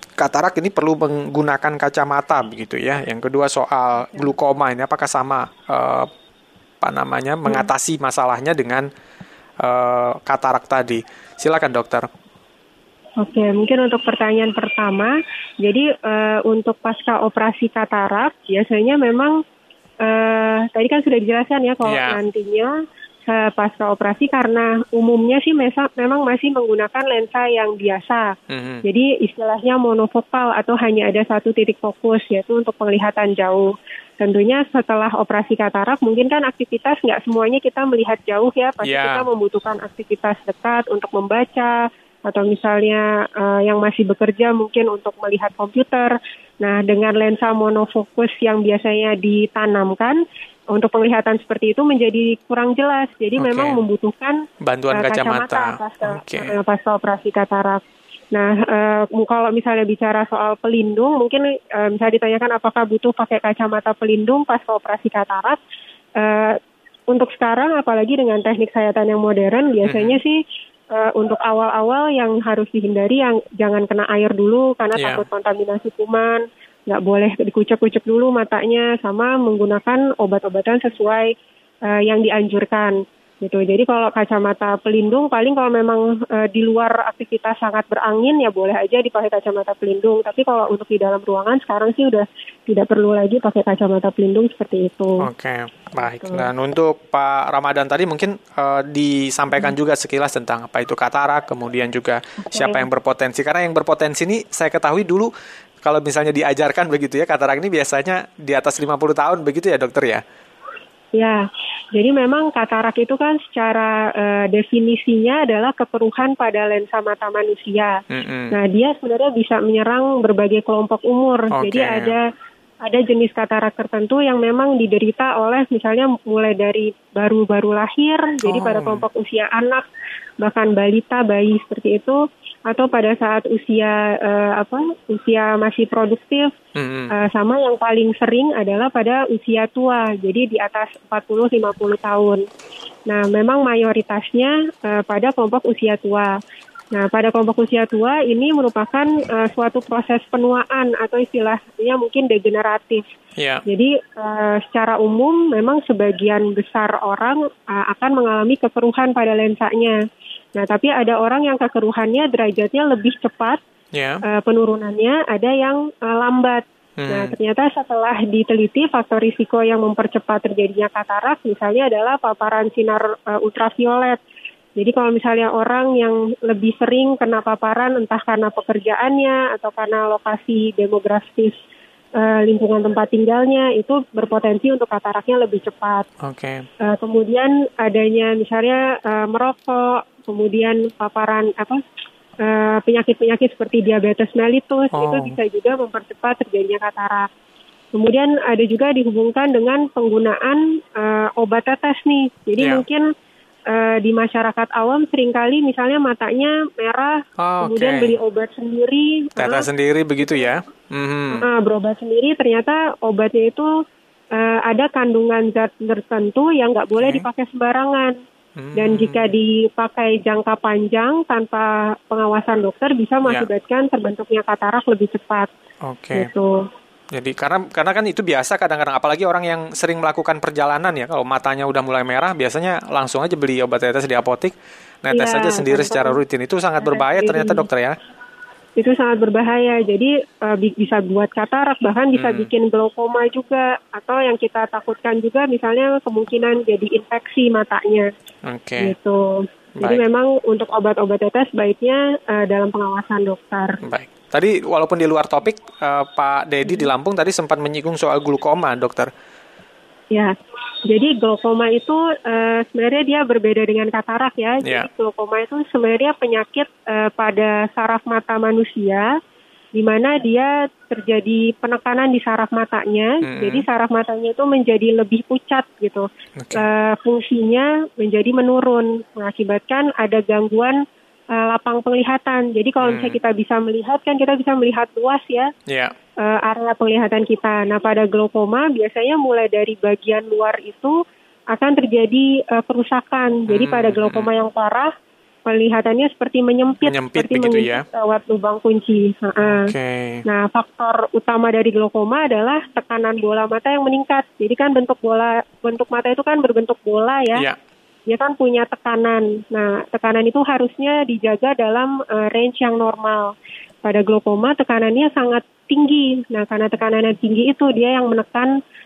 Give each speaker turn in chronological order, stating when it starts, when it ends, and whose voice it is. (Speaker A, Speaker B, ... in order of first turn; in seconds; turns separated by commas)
Speaker A: 0.2-6.1, Speaker A: 6.8-8.9, Speaker A: 9.6-12.1, Speaker B: 13.2-19.4, Speaker B: 20.0-22.7, Speaker A: 21.8-22.2, Speaker B: 23.3-28.3, Speaker A: 28.5-28.8, Speaker B: 28.8-50.2, Speaker A: 38.8-39.3, Speaker B: 50.7-54.4, Speaker A: 53.4-53.8, Speaker A: 54.6-56.5, Speaker B: 54.9-57.8, Speaker B: 58.3-65.6, Speaker B: 66.2-66.6, Speaker B: 67.1-70.4, Speaker A: 69.8-70.2, Speaker B: 70.9-81.3, Speaker A: 74.9-75.2, Speaker B: 81.8-95.3, Speaker A: 95.2-105.3, Speaker B: 96.0-96.5, Speaker B: 102.5-102.8, Speaker A: 105.8-110.2, Speaker B: 111.1-118.0, Speaker A: 118.1-118.6, Speaker B: 118.5-122.2, Speaker A: 121.5-122.2, Speaker B: 122.8-129.8, Speaker A: 128.4-129.0, Speaker B: 130.4-136.5, Speaker A: 136.8-137.1, Speaker B: 137.1-142.4, Speaker B: 143.1-146.3, Speaker B: 146.9-153.0, Speaker A: 153.4-153.6, Speaker B: 153.7-159.9, Speaker B: 160.5-163.6, Speaker A: 163.9-164.2, Speaker B: 164.3-174.2, Speaker A: 167.0-167.3, Speaker B: 174.8-181.6, Speaker B: 182.1-186.1, Speaker A: 186.2-186.6, Speaker B: 186.8-191.8, Speaker B: 192.4-197.3, Speaker A: 194.9-195.4, Speaker B: 197.9-203.1, Speaker A: 202.6-202.8, Speaker B: 203.7-209.7, Speaker A: 207.4-208.2, Speaker A: 209.3-211.5, Speaker B: 211.4-213.7, Speaker B: 214.3-218.1, Speaker A: 217.0-217.2, Speaker A: 218.6-219.3, Speaker B: 218.8-225.5, Speaker A: 223.2-223.5, Speaker A: 225.8-226.3, Speaker B: 226.1-226.7, Speaker A: 227.1-237.9, Speaker B: 235.1-236.2, Speaker B: 236.8-237.7, Speaker B: 238.8-248.1, Speaker A: 242.1-242.5, Speaker A: 248.4-248.9, Speaker B: 248.8-253.8, Speaker A: 249.8-250.0, Speaker A: 253.8-259.1, Speaker B: 260.9-269.1, Speaker A: 264.6-264.9, Speaker B: 269.7-280.8, Speaker A: 273.2-273.7, Speaker A: 276.4-276.6, Speaker B: 281.3-285.5, Speaker A: 282.8-283.2, Speaker A: 285.7-285.9, Speaker B: 286.2-290.9, Speaker B: 291.5-294.9, Speaker A: 293.5-294.3, Speaker B: 295.4-299.7, Speaker A: 296.8-297.9, Speaker A: 299.4-300.2, Speaker B: 300.3-307.4, Speaker B: 308.1-313.3, Speaker B: 313.8-318.5